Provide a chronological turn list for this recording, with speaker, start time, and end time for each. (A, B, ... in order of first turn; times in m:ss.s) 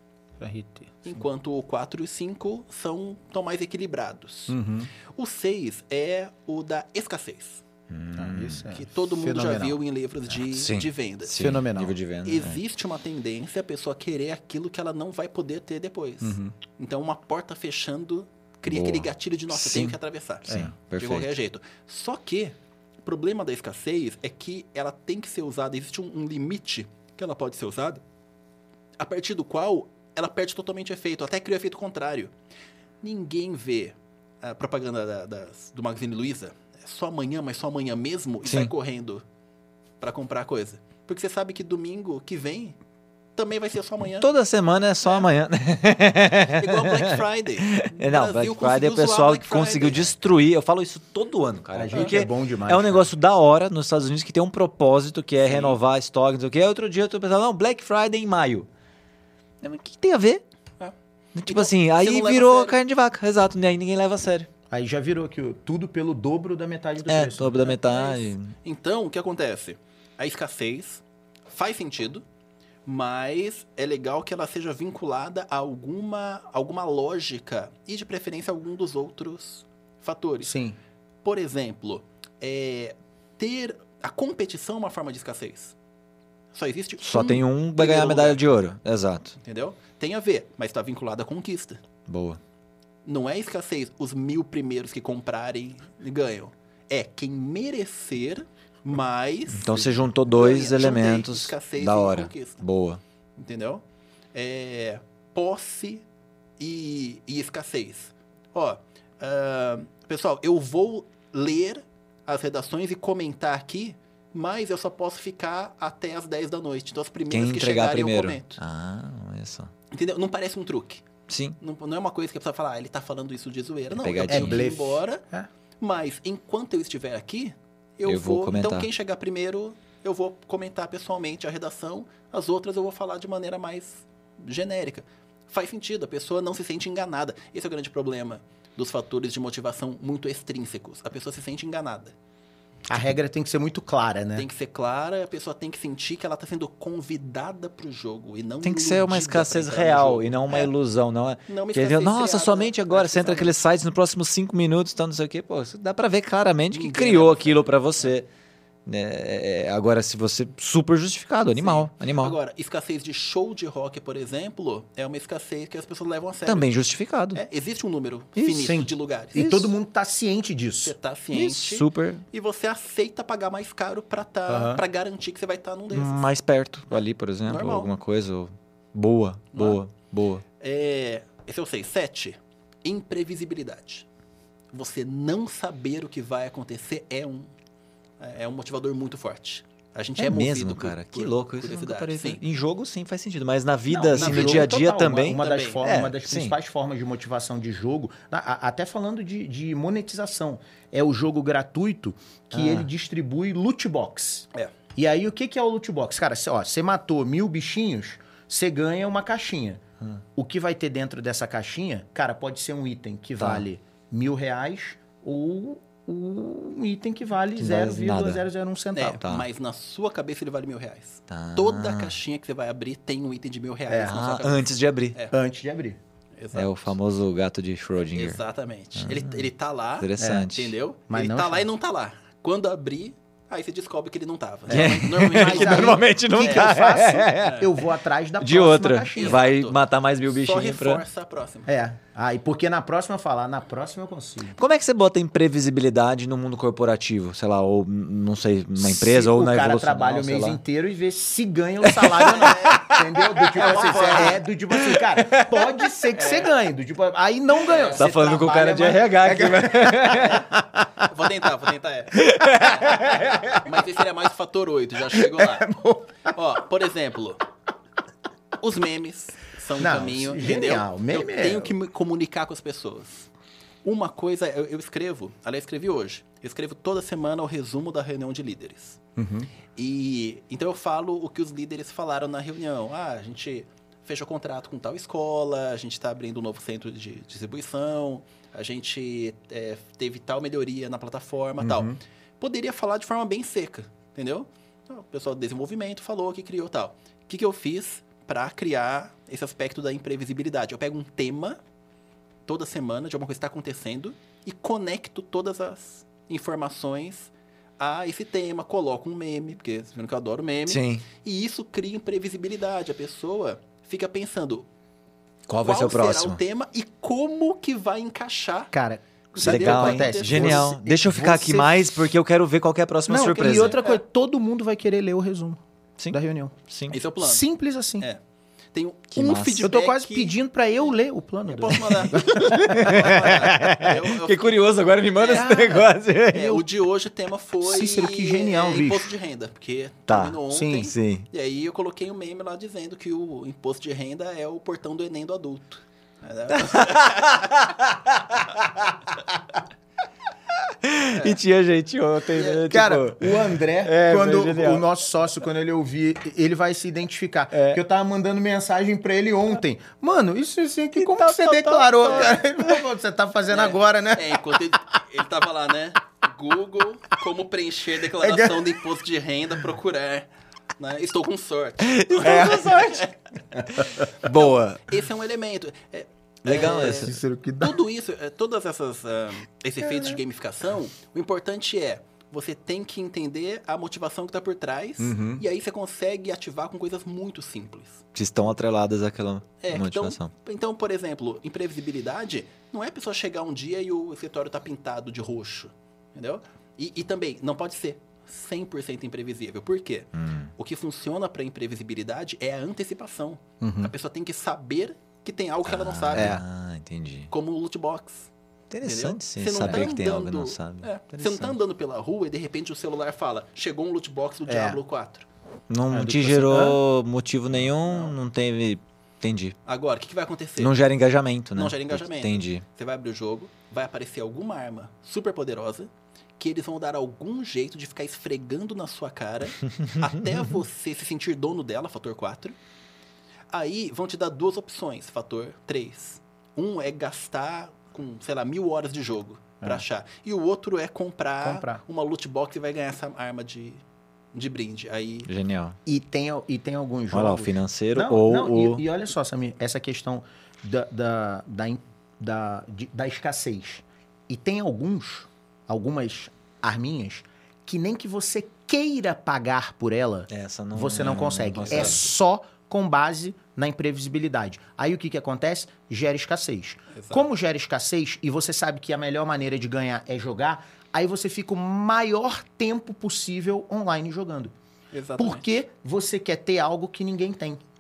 0:00.4-0:01.2 A
0:01.0-0:04.6 B
0:04.5-0:04.9 A
0:05.1-0:07.6 B
0:07.9-0:08.7 C
0:08.2-0:09.8 A
0:08.7-0:11.3 B
0:10.5-0:12.6 C
0:11.4-0:12.0 A
0:12.2-0:28.0 B
0:16.2-0:16.5 A
0:18.7-0:21.3 C
0:29.0-0:32.3 B
0:33.0-0:39.2 B
0:38.4-0:38.7 C
0:40.0-0:42.8 B
0:43.4-0:44.3 B
0:44.2-0:58.7 C
0:46.4-0:50.2 B
0:51.7-0:53.1 A
0:55.4-0:55.8 B
0:59.6-1:00.4 C
1:01.3-1:04.5 C
1:01.5-1:02.8 B
1:04.7-1:07.7 A
1:07.1-1:08.5 C
1:07.6-1:12.2 B
1:12.8-1:20.5 B
1:20.4-1:20.8 A
1:21.2-1:25.7 B
1:26.5-1:28.4 B
1:27.0-1:29.3 C
1:29.4-1:31.8 B
1:32.1-1:32.4 C
1:33.0-1:42.6 B
1:39.5-1:43.0 C
1:43.4-1:43.8 B
1:44.3-1:46.0 B
1:46.6-1:58.6 B
1:57.3-1:59.7 C
1:59.9-2:01.0 B
2:01.3-2:01.6 C
2:01.6-2:05.2 B
2:03.9-2:04.7 C
2:04.3-2:05.5 A
2:05.8-2:22.1 B
2:08.0-2:08.9 C
2:22.9-2:24.5 A
2:24.3-2:30.7 B
2:28.6-2:38.2 C
2:31.5-2:33.5 B
2:36.7-2:37.7 B
2:38.8-2:42.4 C
2:41.5-2:46.7 B
2:46.4-2:47.4 C
2:47.3-2:49.6 B
2:48.4-2:49.6 C
2:48.6-2:50.9 A
2:50.8-2:56.2 B
2:51.3-2:52.2 C
2:54.5-2:54.8 A
2:55.9-3:00.4 C
2:57.4-2:57.9 B
2:59.5-2:59.8 B
3:00.6-3:04.0 B
3:04.7-3:07.5 B
3:08.2-3:12.4 B
3:10.2-3:16.5 C
3:13.9-3:29.8 A
3:14.1-3:15.8 B
3:22.5-3:22.9 C
3:30.4-3:39.2 A
3:33.4-3:33.6 C
3:37.6-3:38.4 C
3:38.9-3:45.3 B
3:39.2-3:39.5 C
3:41.3-3:42.2 C
3:43.9-3:44.1 A
3:44.0-3:45.2 C
3:45.3-3:46.0 A
3:46.4-3:46.9 B
3:46.5-3:48.4 C
3:48.1-3:57.7 B
3:49.0-3:49.4 C
3:50.0-3:50.7 C
3:50.2-3:50.5 A
3:51.1-3:51.6 A
3:54.7-3:59.4 A
3:54.7-3:57.7 C
3:58.4-4:01.0 C
3:59.2-4:01.7 B
4:01.7-4:04.6 A
4:04.6-4:10.6 C
4:08.8-4:20.9 A
4:11.8-4:15.9 C
4:12.2-4:12.9 B
4:13.5-4:14.4 B
4:16.1-4:16.5 B
4:17.6-4:18.0 B
4:18.0-4:20.4 C
4:20.1-4:25.7 B
4:22.2-4:23.6 C
4:25.1-4:26.3 A
4:26.3-4:27.4 B
4:28.6-4:33.3 B
4:29.8-4:31.7 A
4:33.8-4:39.0 B
4:39.2-4:39.5 A
4:39.7-5:01.6 B
4:51.6-4:52.0 A
5:02.5-5:14.6 B
5:10.7-5:11.0 C
5:15.5-5:16.4 C
5:15.6-5:18.7 B
5:18.7-5:22.0 A
5:19.3-5:20.7 B
5:19.4-5:23.8 C
5:23.1-5:25.6 A
5:23.4-5:24.0 B
5:26.0-5:27.0 C
5:26.1-5:26.5 A
5:26.9-5:27.4 B
5:27.2-5:28.0 A
5:28.7-5:30.4 B
5:29.1-5:29.7 C
5:29.6-5:33.3 A
5:31.5-5:47.6 B
5:32.2-5:36.6 C
5:37.6-5:39.1 A
5:40.1-5:41.2 C
5:40.5-5:40.9 A
5:46.6-5:48.9 C
5:50.8-5:54.8 C
5:51.1-5:51.4 B
5:52.3-5:52.7 B
5:52.7-6:04.7 A
5:57.5-5:57.8 C
6:01.0-6:02.4 C
6:01.7-6:02.4 B
6:03.5-6:28.0 B
6:08.1-6:08.8 A
6:11.8-6:13.1 C
6:12.2-6:12.7 A
6:13.7-6:14.9 C
6:16.4-6:17.2 C
6:16.5-6:17.8 A
6:19.8-6:20.2 A
6:25.0-6:25.4 A
6:28.1-6:30.3 C
6:29.6-6:46.4 B
6:40.1-6:40.5 C
6:43.6-6:43.9 A
6:45.6-6:47.3 C
6:46.1-6:46.4 A
6:47.3-6:48.3 B
6:48.7-6:51.6 C
6:48.8-6:55.3 B
6:49.6-6:49.9 A
6:54.4-6:54.8 A
6:55.7-6:59.6 C
6:55.9-6:56.8 A
6:57.5-6:58.1 B
6:59.6-7:00.7 B
7:00.6-7:02.6 C
7:01.5-7:12.6 B
7:13.5-7:23.8 B
7:21.4-7:21.8 A
7:24.3-7:25.3 B
7:25.2-7:25.8 C
7:25.8-7:54.5 A
7:27.1-7:28.8 C
7:40.3-7:42.1 C
7:46.9-7:47.3 B
7:54.9-7:55.4 B
7:55.2-7:57.6 A